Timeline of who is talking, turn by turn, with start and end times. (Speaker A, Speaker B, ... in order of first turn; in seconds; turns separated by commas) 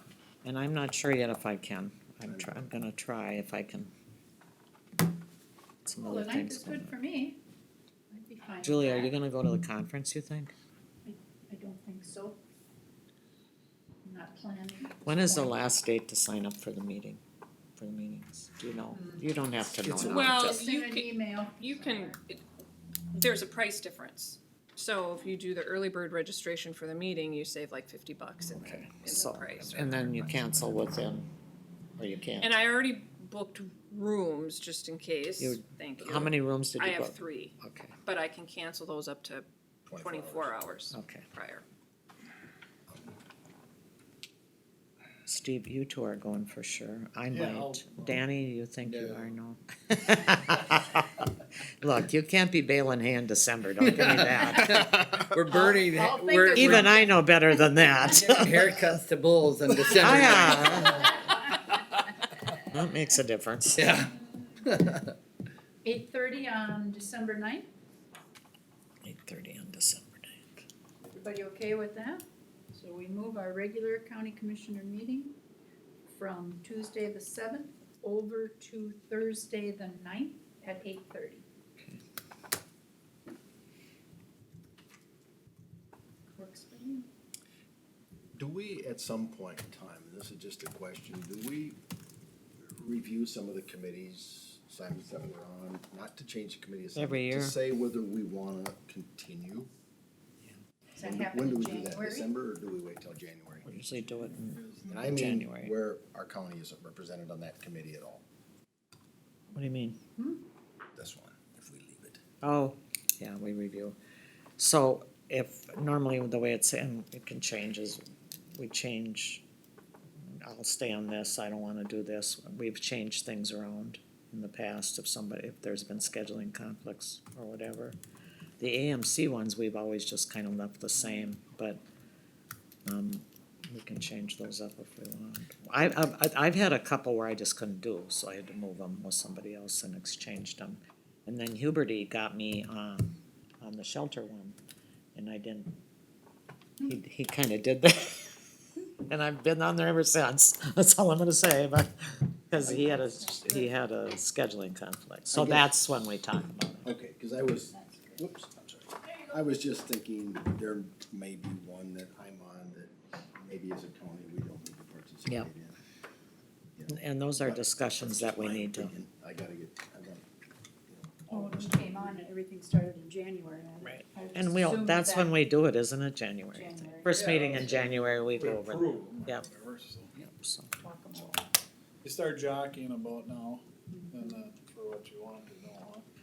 Speaker A: 0.4-3.9, Speaker B: 2.3-2.7, Speaker A: 5.8-6.9, Speaker C: 6.0-7.4, Speaker C: 8.1-9.2, Speaker A: 8.6-10.5, Speaker C: 11.1-12.4, Speaker C: 14.1-15.6, Speaker A: 15.0-17.2, Speaker A: 17.8-20.6, Speaker C: 18.9-19.3, Speaker B: 19.8-20.5, Speaker D: 20.1-22.4, Speaker C: 20.5-22.2, Speaker D: 23.1-30.2, Speaker A: 28.6-31.3, Speaker A: 32.0-32.6, Speaker D: 32.4-37.5, Speaker A: 35.4-37.9, Speaker D: 38.1-41.6, Speaker B: 39.9-40.8, Speaker A: 40.9-41.2, Speaker A: 45.3-51.2, Speaker E: 47.4-48.1, Speaker F: 48.9-49.2, Speaker A: 51.8-54.8, Speaker F: 53.9-56.9, Speaker C: 55.4-57.1, Speaker A: 56.5-58.9, Speaker F: 57.9-61.1, Speaker A: 60.0-61.1, Speaker A: 62.7-64.0, Speaker F: 63.8-65.1, Speaker C: 65.8-67.7, Speaker A: 69.0-70.6, Speaker C: 71.1-75.4, Speaker C: 76.1-81.4, Speaker C: 86.4-87.0, Speaker B: 88.4-91.8, Speaker B: 92.6-99.7, Speaker A: 97.0-97.6, Speaker C: 101.0-102.3, Speaker B: 101.0-103.7, Speaker A: 103.7-105.7, Speaker B: 104.8-108.2, Speaker A: 109.5-110.0, Speaker C: 110.2-110.4, Speaker B: 111.0-112.2, Speaker A: 112.4-114.0, Speaker A: 114.6-118.0, Speaker A: 118.5-119.4, Speaker A: 120.3-128.0, Speaker A: 128.6-131.8, Speaker A: 132.9-144.6, Speaker A: 145.2-145.7, Speaker A: 146.8-148.3, Speaker A: 149.1-156.9, Speaker B: 152.6-153.0, Speaker B: 155.3-155.7, Speaker B: 156.8-165.8, Speaker B: 166.8-170.3, Speaker A: 166.9-168.9, Speaker B: 170.9-172.2, Speaker C: 171.3-175.4, Speaker A: 173.8-179.5, Speaker C: 176.5-177.3, Speaker E: 177.2-180.1, Speaker A: 180.2-180.8, Speaker C: 180.8-181.5, Speaker E: 182.0-183.6, Speaker C: 183.9-184.3, Speaker E: 184.1-186.0